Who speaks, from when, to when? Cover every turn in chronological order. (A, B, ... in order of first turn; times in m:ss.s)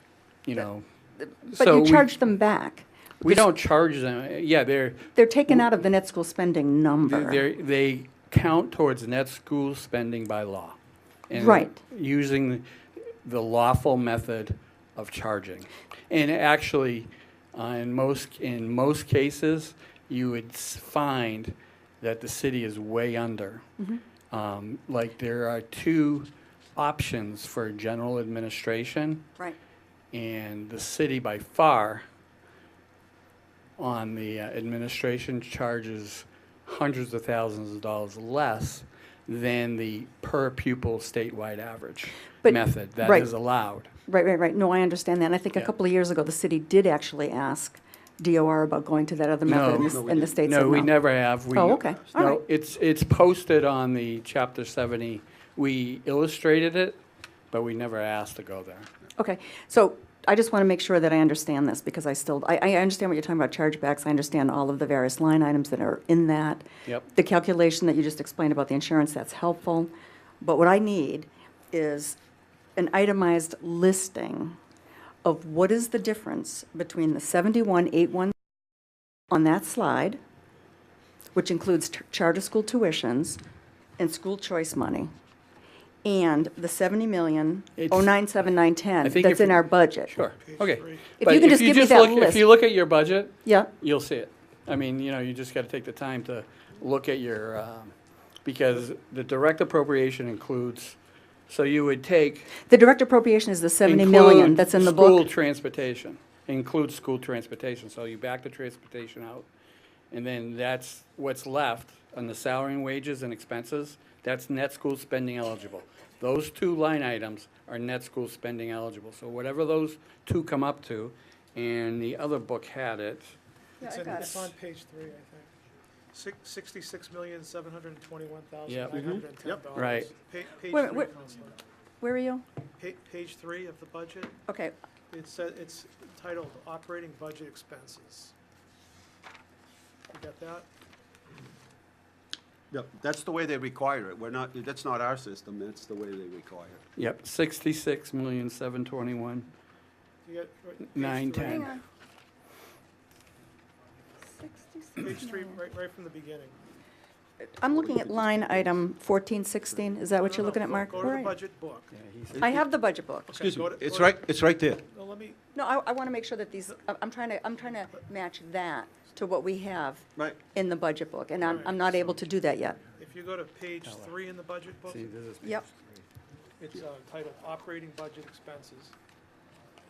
0:00.4-0:00.9 A
0:01.5-0:02.1 A
0:01.5-0:03.5 B
0:03.2-0:05.1 A
0:05.2-0:07.4 B
0:07.1-0:10.8 A
0:11.3-0:12.6 A
0:11.3-0:11.8 B
0:13.2-0:23.6 A
0:24.3-0:29.3 A
0:30.1-0:32.0 A
0:33.8-0:43.9 A
0:42.4-0:43.3 B
0:44.1-0:50.9 B
0:49.5-0:57.0 A
0:49.8-0:50.4 C
0:51.4-0:52.4 B
0:57.5-0:58.9 A
0:59.2-1:12.2 B
1:12.8-1:14.6 B
1:15.2-1:18.3 B
1:19.3-1:20.2 B
1:21.4-1:23.4 B
1:24.0-1:25.1 B
1:26.0-1:30.2 B
1:27.8-1:28.1 A
1:29.0-1:42.6 A
1:30.4-1:31.1 D
1:31.2-1:32.4 B
1:33.4-1:33.7 B
1:42.7-1:45.2 B
1:43.8-1:49.5 A
1:50.1-2:03.3 A
2:03.8-2:04.5 B
2:03.8-2:05.5 D
2:06.1-2:11.6 D
2:08.7-2:09.1 A
2:09.1-2:09.6 C
2:09.7-2:10.1 A
2:10.7-2:11.1 B
2:12.0-2:12.4 B
2:12.8-2:14.4 D
2:14.5-2:14.7 B
2:15.1-2:18.3 D
2:20.1-2:20.7 D
2:22.7-2:26.8 C
2:27.0-2:29.5 A
2:30.2-2:31.7 D
2:30.9-2:31.7 A
2:31.4-2:31.8 B
2:34.4-2:35.6 B
2:35.0-2:36.6 D
2:37.4-2:41.4 B
2:37.7-2:38.7 C
2:40.1-2:41.9 D
2:41.9-2:42.6 A
2:42.4-2:43.4 B
2:43.3-2:45.4 D
2:43.4-2:44.8 C
2:45.5-2:52.8 B
2:51.4-2:51.8 D
2:53.0-2:55.1 D
2:53.8-2:54.1 A
2:54.9-2:56.0 A
2:56.6-2:58.9 D